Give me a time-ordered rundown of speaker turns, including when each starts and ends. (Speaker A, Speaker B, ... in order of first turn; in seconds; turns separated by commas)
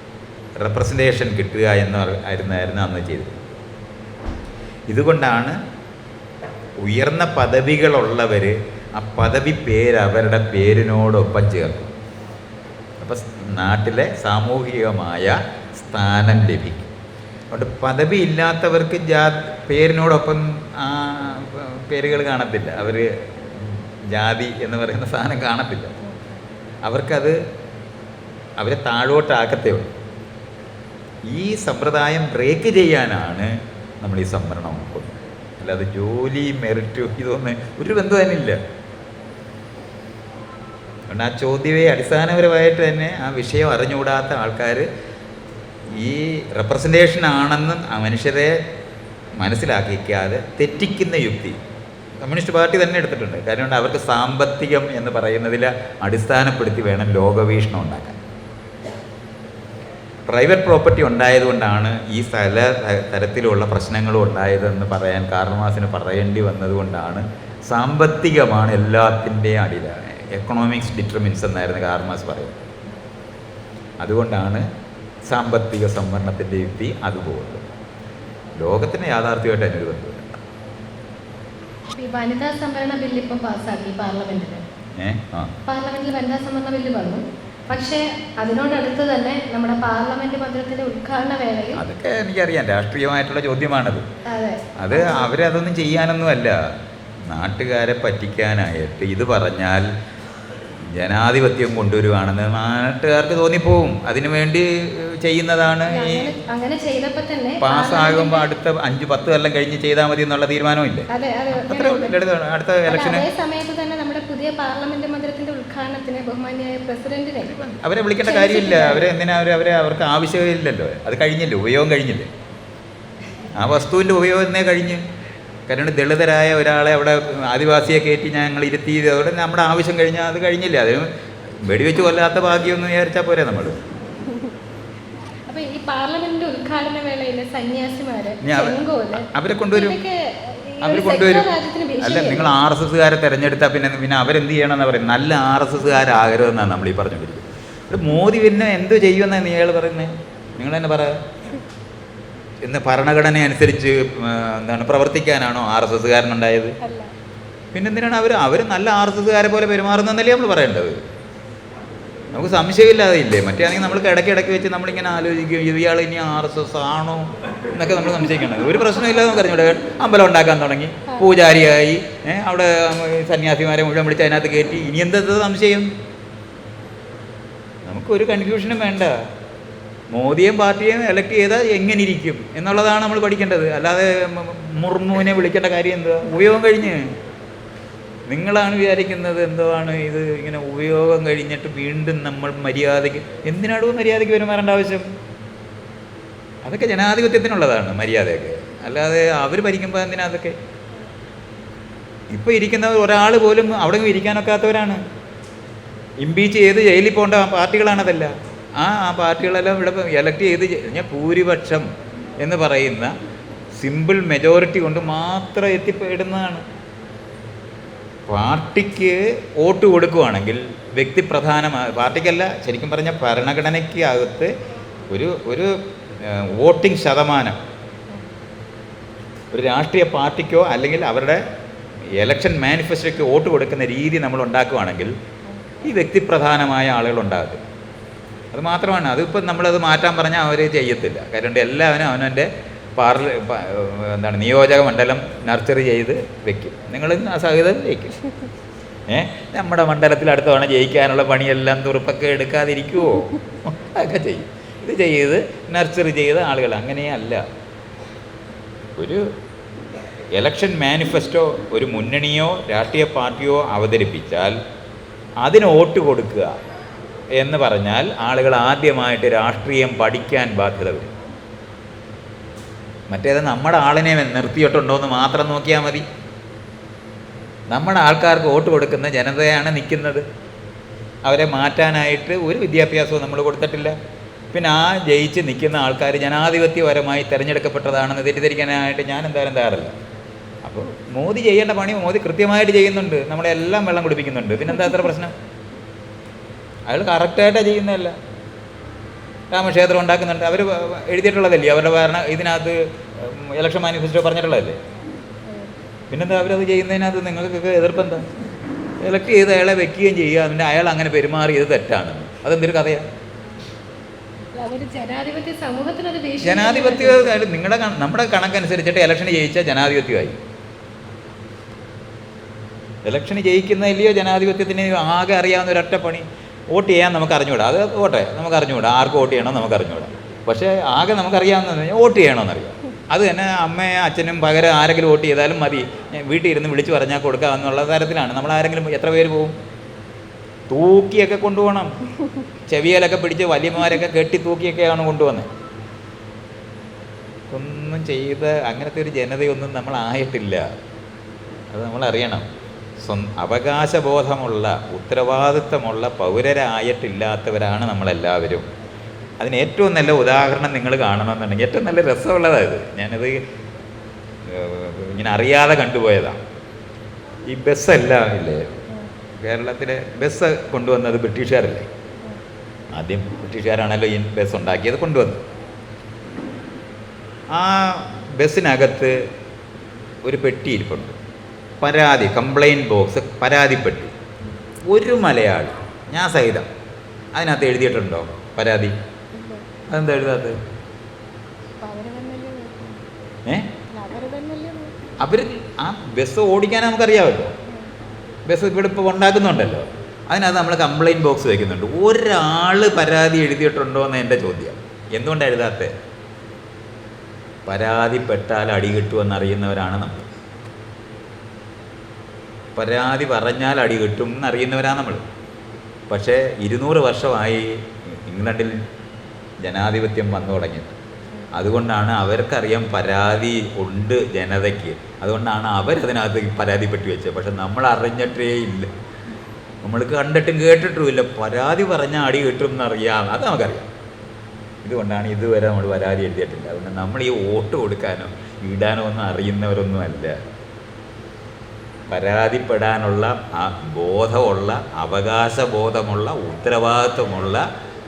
Speaker A: 0.6-3.4, Speaker A: 4.9-5.6, Speaker A: 6.8-11.9, Speaker A: 13.0-16.9, Speaker A: 17.5-25.9, Speaker A: 26.8-27.4, Speaker A: 28.6-29.9, Speaker A: 31.3-38.6, Speaker A: 41.1-44.9, Speaker A: 45.9-48.6, Speaker A: 49.4-51.6, Speaker A: 52.2-58.2, Speaker A: 60.3-72.6, Speaker A: 74.0-74.7, Speaker A: 75.3-77.6, Speaker A: 78.6-80.3, Speaker B: 81.9-84.6, Speaker A: 85.0-85.5, Speaker B: 85.7-91.8, Speaker A: 91.7-94.0, Speaker B: 94.3-95.3, Speaker A: 94.8-96.6, Speaker A: 97.3-99.9, Speaker A: 100.9-106.3, Speaker B: 105.9-108.5, Speaker A: 107.6-113.3, Speaker B: 111.1-112.2, Speaker B: 112.8-117.5, Speaker A: 117.4-122.3, Speaker B: 118.2-119.1, Speaker A: 123.5-125.0, Speaker A: 125.7-131.1, Speaker A: 131.6-133.8, Speaker B: 135.5-142.5, Speaker A: 138.4-140.0, Speaker A: 140.8-151.2, Speaker A: 152.6-156.8, Speaker B: 156.8-157.1, Speaker A: 157.7-161.0, Speaker A: 162.3-175.9, Speaker A: 177.8-179.1, Speaker A: 180.1-187.1, Speaker A: 188.3-195.0, Speaker A: 196.6-200.6, Speaker A: 202.3-205.0, Speaker A: 206.2-211.9, Speaker A: 212.4-213.1, Speaker A: 213.8-216.6, Speaker A: 218.3-224.5, Speaker A: 225.1-227.6, Speaker A: 229.5-231.4, Speaker A: 232.2-235.1, Speaker B: 235.5-235.9, Speaker A: 235.8-237.6, Speaker A: 238.5-248.2, Speaker A: 249.1-257.4, Speaker A: 259.0-259.2, Speaker A: 260.3-264.6, Speaker A: 265.4-266.5, Speaker A: 267.4-271.1, Speaker A: 273.1-276.0, Speaker A: 277.7-280.2, Speaker A: 281.2-283.9, Speaker A: 284.5-289.9, Speaker A: 290.6-295.3, Speaker A: 296.9-298.1, Speaker A: 299.5-304.8, Speaker B: 305.4-305.7, Speaker A: 306.1-308.2, Speaker A: 309.0-313.0, Speaker B: 314.5-317.4, Speaker A: 316.4-320.4, Speaker A: 323.0-339.5, Speaker A: 340.7-341.9, Speaker A: 342.7-345.5, Speaker A: 347.5-350.7, Speaker A: 351.7-352.4, Speaker A: 353.0-358.7, Speaker A: 359.4-363.4, Speaker A: 364.4-366.4, Speaker A: 367.5-368.8, Speaker A: 369.4-371.9, Speaker A: 372.9-375.4, Speaker A: 377.5-379.2, Speaker A: 380.2-381.1, Speaker A: 381.8-384.1, Speaker A: 384.9-386.7, Speaker A: 387.3-388.9, Speaker B: 389.3-389.7, Speaker A: 389.9-390.6, Speaker B: 391.8-393.0, Speaker A: 393.4-393.7, Speaker B: 393.9-394.9, Speaker A: 395.2-397.5, Speaker A: 398.4-405.9, Speaker A: 407.6-410.3, Speaker A: 412.8-415.2, Speaker A: 416.1-418.8, Speaker A: 419.6-420.9, Speaker A: 421.5-428.9, Speaker A: 429.8-433.9, Speaker A: 434.8-440.4, Speaker A: 442.1-447.6